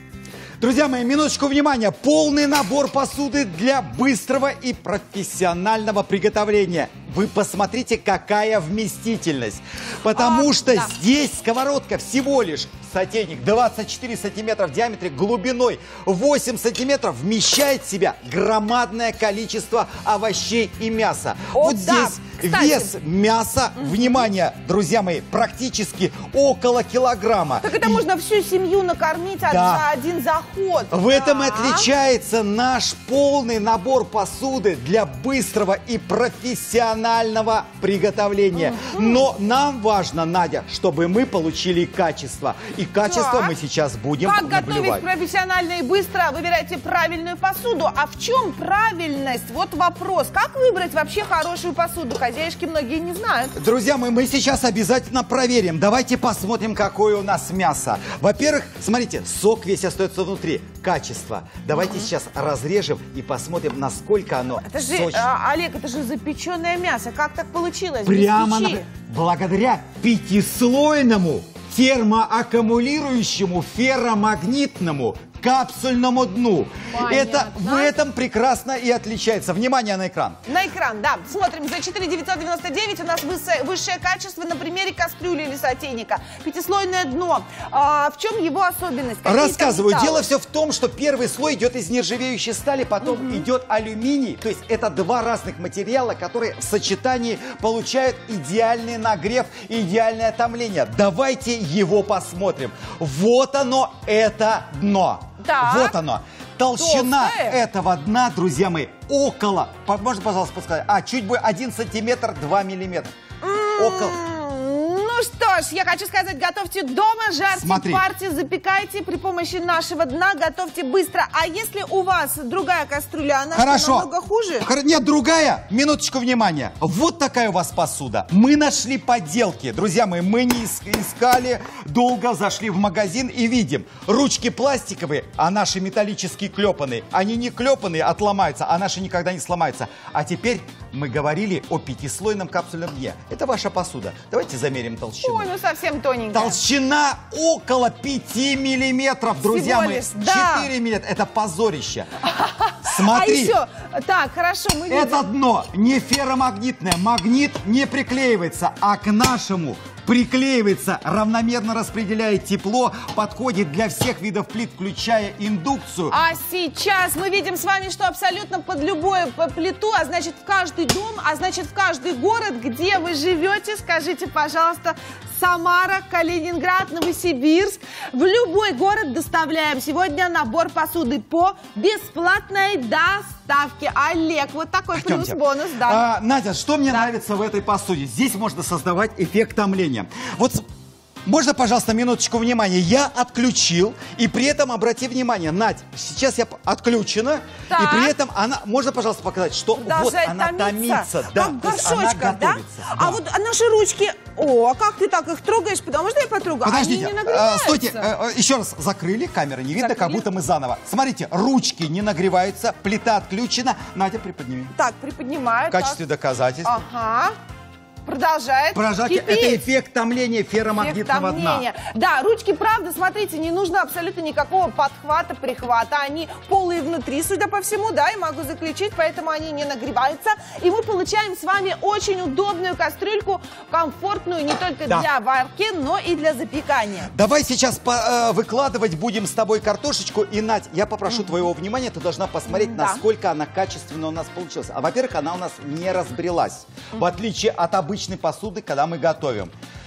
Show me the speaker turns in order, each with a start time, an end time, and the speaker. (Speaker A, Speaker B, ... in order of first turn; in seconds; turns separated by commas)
Speaker A: 0.6-28.0, Speaker B: 10.1-10.9, Speaker B: 21.5-22.9, Speaker B: 23.8-24.3, Speaker B: 27.6-31.9, Speaker A: 29.5-29.9, Speaker A: 30.9-45.0, Speaker B: 38.5-39.3, Speaker B: 43.0-43.5, Speaker B: 44.2-53.5, Speaker A: 53.5-65.3, Speaker B: 61.8-62.1, Speaker B: 64.6-68.8, Speaker A: 68.0-80.4, Speaker B: 76.9-77.9, Speaker B: 80.5-90.3, Speaker A: 89.2-113.1, Speaker B: 93.0-93.5, Speaker B: 105.4-106.0, Speaker B: 106.8-107.6, Speaker B: 113.4-124.7, Speaker A: 113.8-114.2, Speaker A: 117.5-118.0, Speaker A: 123.5-124.1, Speaker A: 124.6-145.5, Speaker B: 145.2-146.6, Speaker A: 146.3-152.1, Speaker B: 149.4-150.7, Speaker B: 152.2-155.2, Speaker A: 152.8-153.6, Speaker A: 154.9-166.2, Speaker B: 166.1-186.0, Speaker A: 184.9-190.7, Speaker A: 191.2-203.2, Speaker B: 197.7-198.1, Speaker B: 199.8-208.1, Speaker A: 206.6-214.7, Speaker B: 209.8-210.3, Speaker B: 214.7-216.0, Speaker A: 215.7-216.8, Speaker B: 216.6-217.3, Speaker B: 218.1-219.6, Speaker A: 218.7-221.7, Speaker B: 220.8-237.1, Speaker A: 237.1-249.5, Speaker B: 242.5-243.0